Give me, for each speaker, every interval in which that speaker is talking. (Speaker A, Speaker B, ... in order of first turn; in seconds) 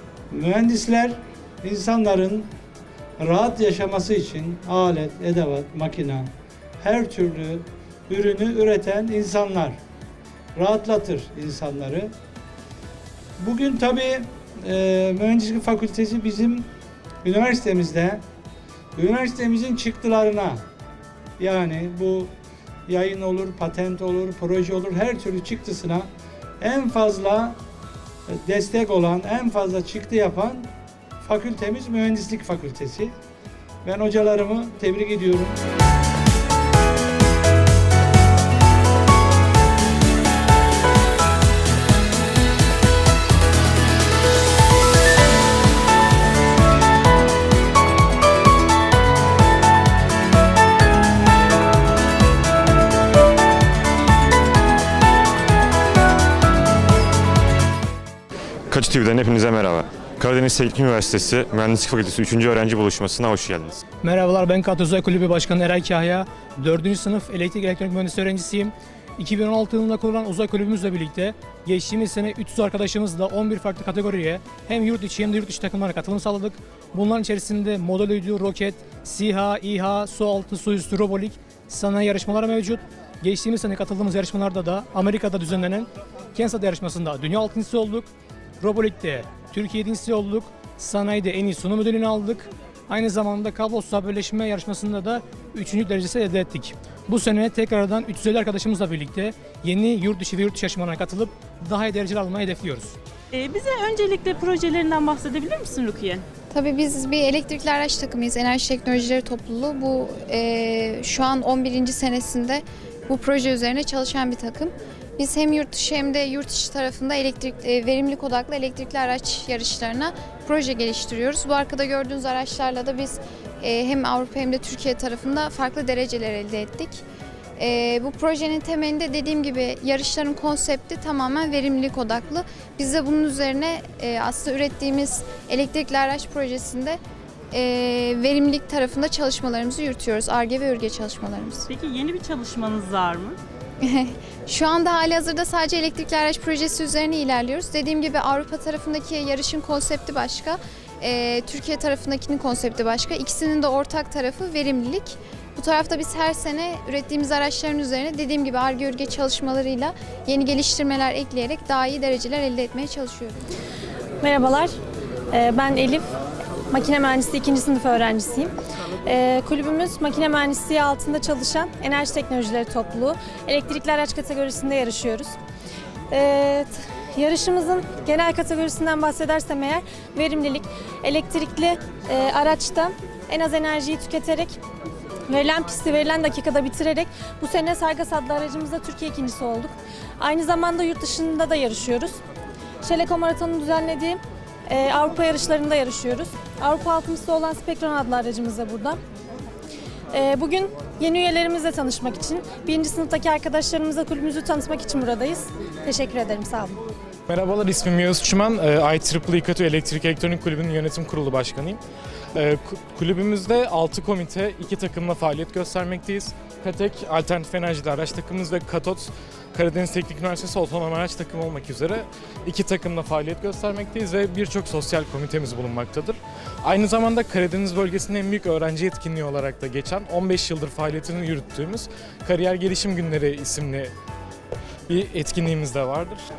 Speaker A: 0.3-2.5, 3.2-9.8, 10.6-12.1, 13.4-16.7, 17.2-18.2, 19.0-20.6, 21.4-22.3, 22.9-26.1, 26.6-27.6, 28.3-30.7, 31.2-33.1, 33.8-35.6
Speaker B: 58.7-63.8
Speaker C: 64.0-103.0
Speaker D: 103.3-106.2, 141.7-143.4
Speaker E: 106.5-127.0, 127.6-137.0, 137.5-141.7, 143.8-163.4
Speaker F: 164.2-164.7, 165.3-166.1, 166.7-168.5, 169.1-175.4, 176.1-184.6, 185.3-192.2, 192.8-199.0, 200.1-206.8
Speaker G: 207.3-211.8, 212.3-233.9, 234.9-236.2